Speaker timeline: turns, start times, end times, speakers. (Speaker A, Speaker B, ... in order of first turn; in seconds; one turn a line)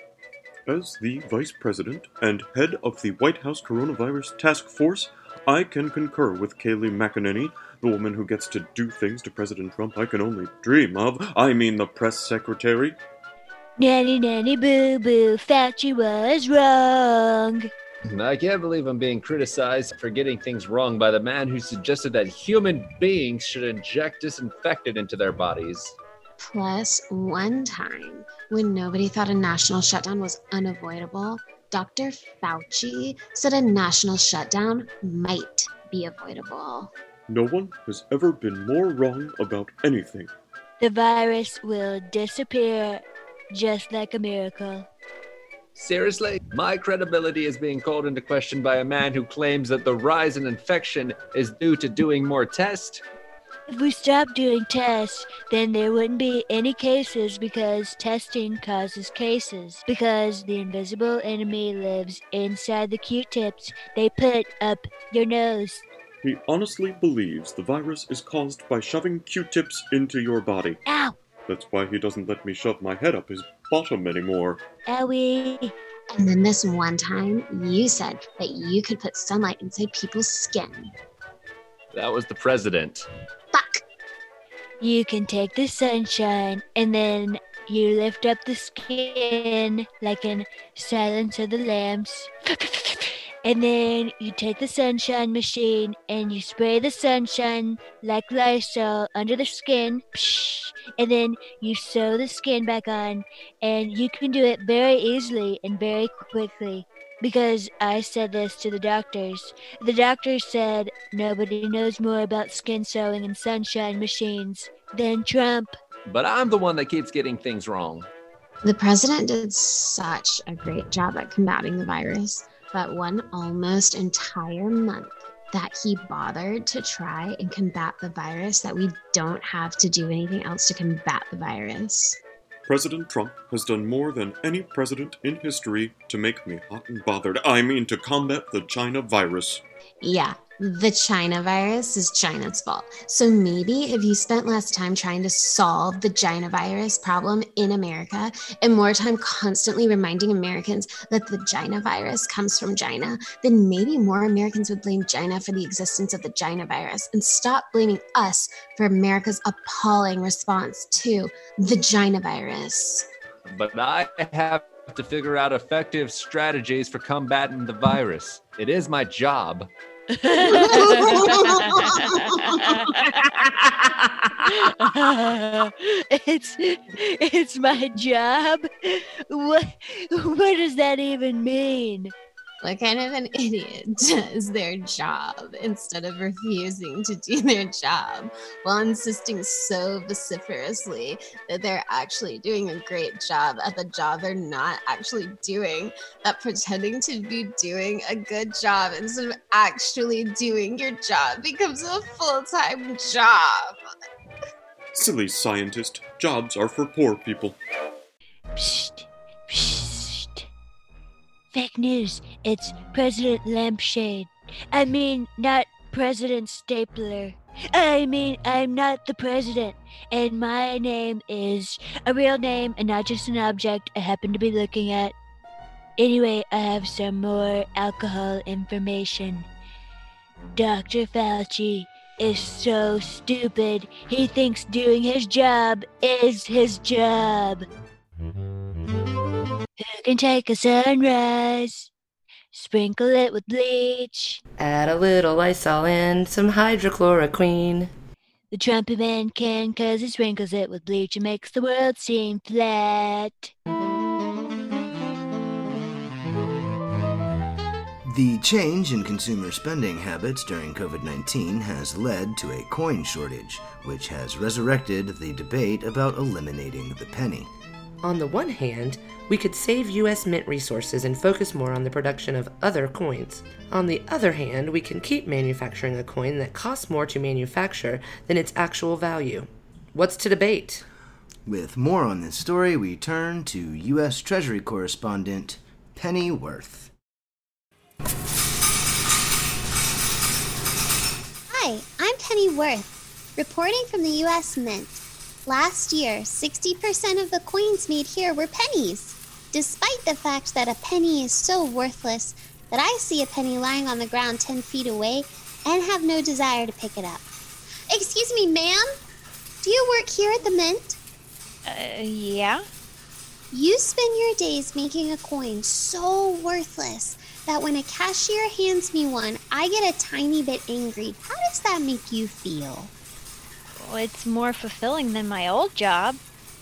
Speaker A: 0.7-13.0
Speaker B: 13.8-17.7
Speaker C: 18.0-25.9
Speaker D: 26.4-36.9
Speaker A: 37.3-40.3
Speaker B: 40.8-44.9
Speaker C: 45.7-53.0
Speaker B: 53.7-65.8
Speaker A: 66.2-70.8
Speaker B: 70.8-71.2
Speaker A: 71.5-74.6
Speaker B: 74.9-75.7
Speaker D: 76.1-80.9
Speaker C: 81.9-83.1
Speaker D: 83.5-83.8
Speaker B: 84.8-115.8
Speaker C: 116.0-118.1
Speaker D: 118.6-132.2
Speaker A: 132.7-139.6
Speaker D: 140.0-163.1
Speaker C: 163.4-169.7
Speaker B: 170.2-173.4
Speaker D: 170.8-171.8
Speaker C: 173.2-174.1
Speaker B: 174.4-182.1
Speaker D: 182.6-203.8
Speaker A: 204.9-207.6
Speaker B: 208.6-210.5
Speaker B: 211.5-225.1
Speaker B: 226.0-229.5
Speaker B: 230.6-237.7
Speaker B: 239.8-241.9
Speaker B: 242.5-244.4
Speaker E: 244.6-247.9
Speaker B: 248.5-253.5
Speaker F: 258.1-267.5
Speaker E: 268.0-280.8
Speaker F: 281.4-286.9
Speaker G: 291.5-307.3
Speaker G: 307.9-308.9
Speaker G: 309.6-311.0
Speaker H: 311.6-312.6
Speaker G: 313.5-322.9
Speaker H: 323.8-326.2